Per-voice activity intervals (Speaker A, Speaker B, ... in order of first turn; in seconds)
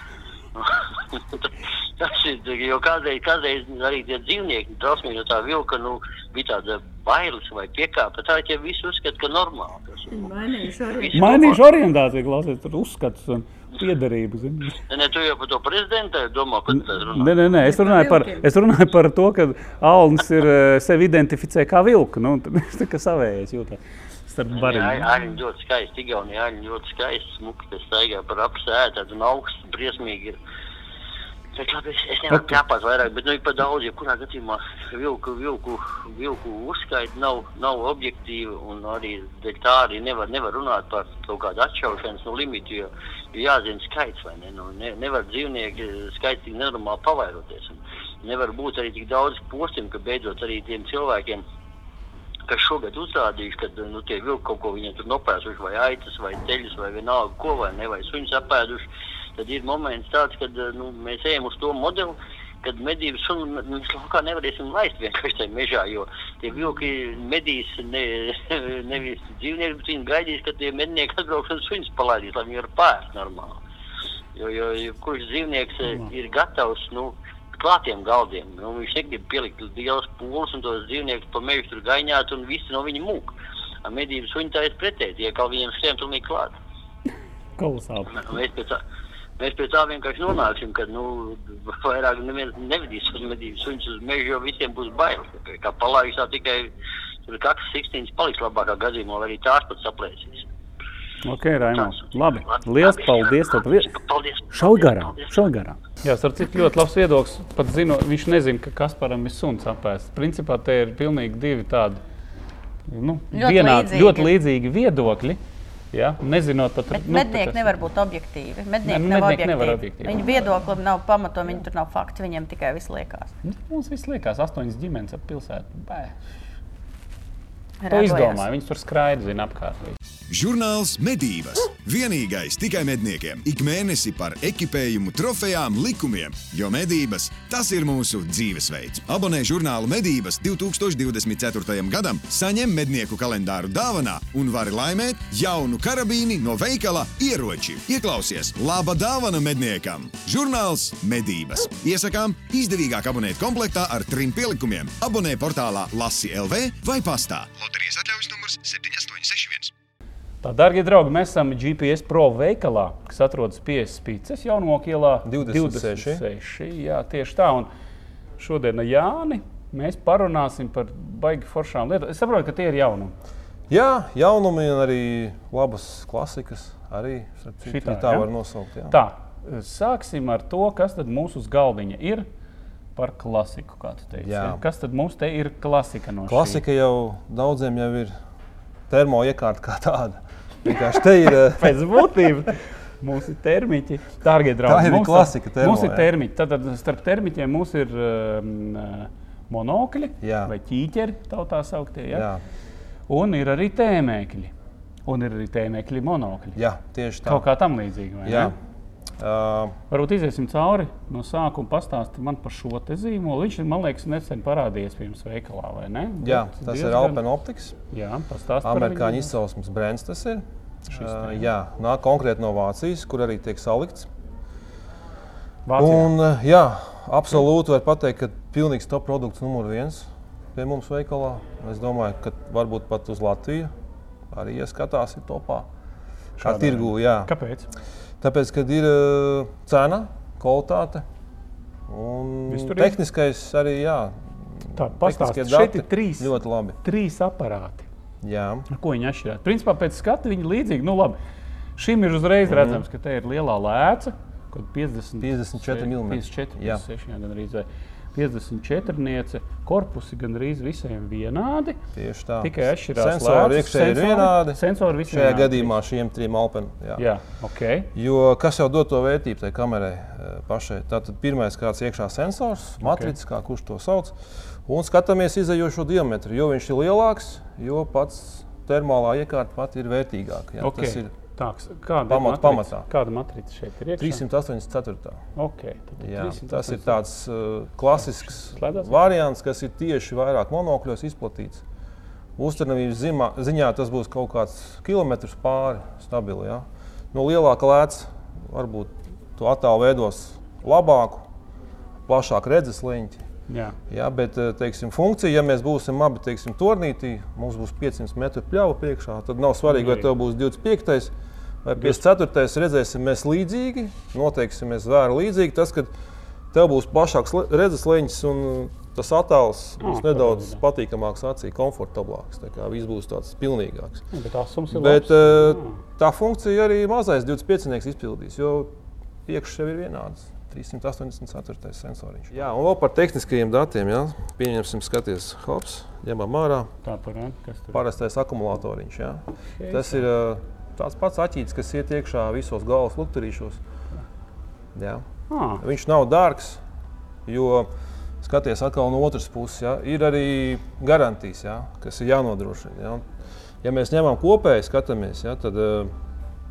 Speaker A: 0.6-10.3, 11.0-11.6, 14.9-17.4, 24.5-30.4, 31.5-51.4, 52.5-73.6, 74.3-83.3, 83.8-86.5, 88.1-88.8, 89.4-96.7, 97.3-100.5, 101.7-105.4
Speaker B: 10.1-11.6, 17.6-18.5, 113.3-114.3, 116.9-123.3, 127.8-128.5
Speaker C: 11.1-14.8, 16.8-25.1, 32.3-32.6, 87.6-88.2, 101.2-104.0, 104.5-112.0, 112.9-115.4, 115.9-117.8, 118.8-120.5, 123.4-126.2, 127.9-130.0, 160.4-167.7, 168.4-173.1, 177.6-178.3, 178.9-182.3, 183.0-186.6, 191.6-202.3, 203.1-204.5, 205.1-206.6, 207.2-208.5, 209.9-217.2, 217.9-219.3, 220.9-221.4, 225.7-226.1, 236.4-237.7, 242.5-243.0, 244.8-247.9, 248.7-251.2, 251.8-261.8, 262.4-265.8, 267.0-267.9, 272.8-273.1, 280.6-284.2, 285.4-287.0, 288.0-289.0, 303.5-303.8, 309.7-310.1, 319.8-320.6, 324.1-325.7, 336.8-337.8, 339.6-340.0, 345.3-345.6
Speaker D: 130.3-159.7
Speaker E: 165.2-166.2, 173.7-179.0, 184.2-184.6, 186.3-188.1, 188.9-192.1, 194.6-196.1, 200.2-200.5, 202.1-202.4, 206.6-207.5, 208.2-208.6, 209.2-209.8, 216.2-217.8, 218.6-224.1, 225.8-233.7, 234.3-235.7, 236.4-237.3, 238.2-241.1, 241.9-246.8, 248.2-248.7, 252.4-252.8, 255.2-256.8, 262.0-267.1, 267.9-281.1, 282.1-282.9, 284.0-285.2, 286.0-291.6, 292.4-301.3, 302.1-303.2, 303.9-311.1, 311.6-315.9, 316.5-324.1, 324.7-328.7, 329.3-336.7, 337.7-343.6, 344.8-345.1, 345.6-346.6, 347.3-347.7, 348.2-353.1, 353.6-355.9